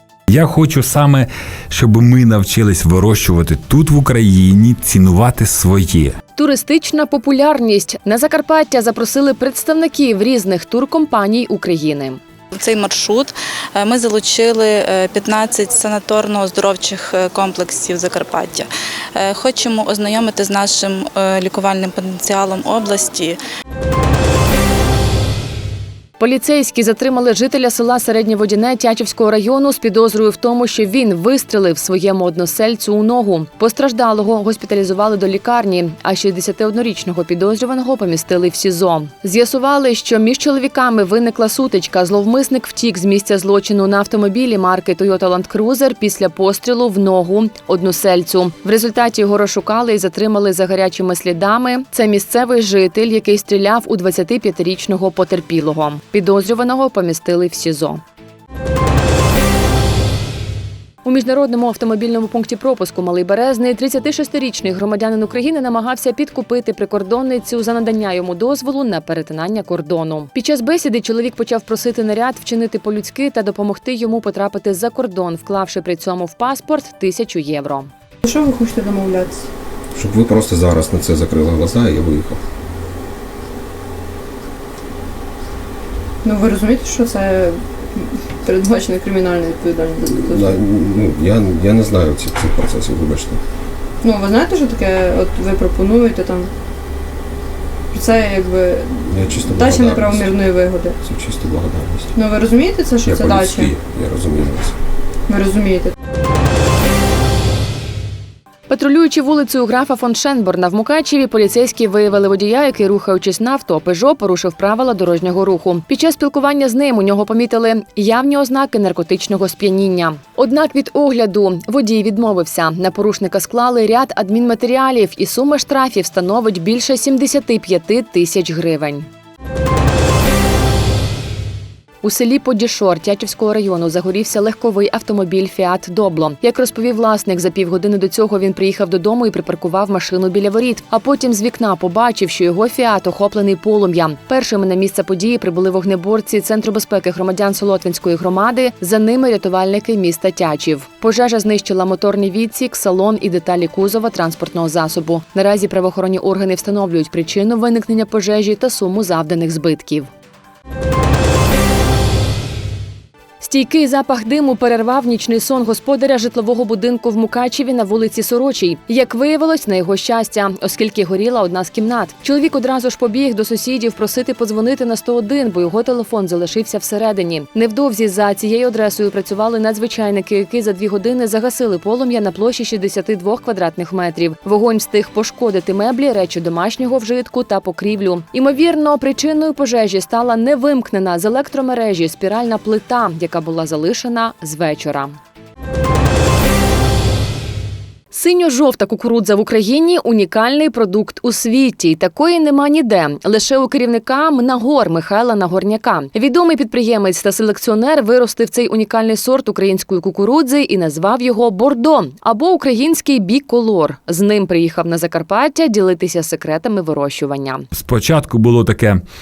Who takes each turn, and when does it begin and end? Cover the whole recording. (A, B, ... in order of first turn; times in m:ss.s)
0:00.3-0:06.1 A
0:06.4-0:12.2 B
0:12.5-0:23.4 C
0:26.2-0:58.0 B
1:01.0-1:17.9 B
1:18.2-1:19.5 D
1:19.9-1:22.4 E
1:26.2-1:30.5 D
1:30.0-1:33.4 E
1:34.0-1:36.5 D
1:37.9-1:41.0 D
1:39.1-1:40.5 E
1:41.0-1:42.2 E
1:42.2-1:43.7 D
1:43.0-1:44.7 E
1:45.3-1:45.9 D
1:48.7-2:09.1 B
2:12.0-2:40.1 B
2:43.4-3:15.2 B
3:18.1-3:37.6 B
3:37.7-3:39.0 A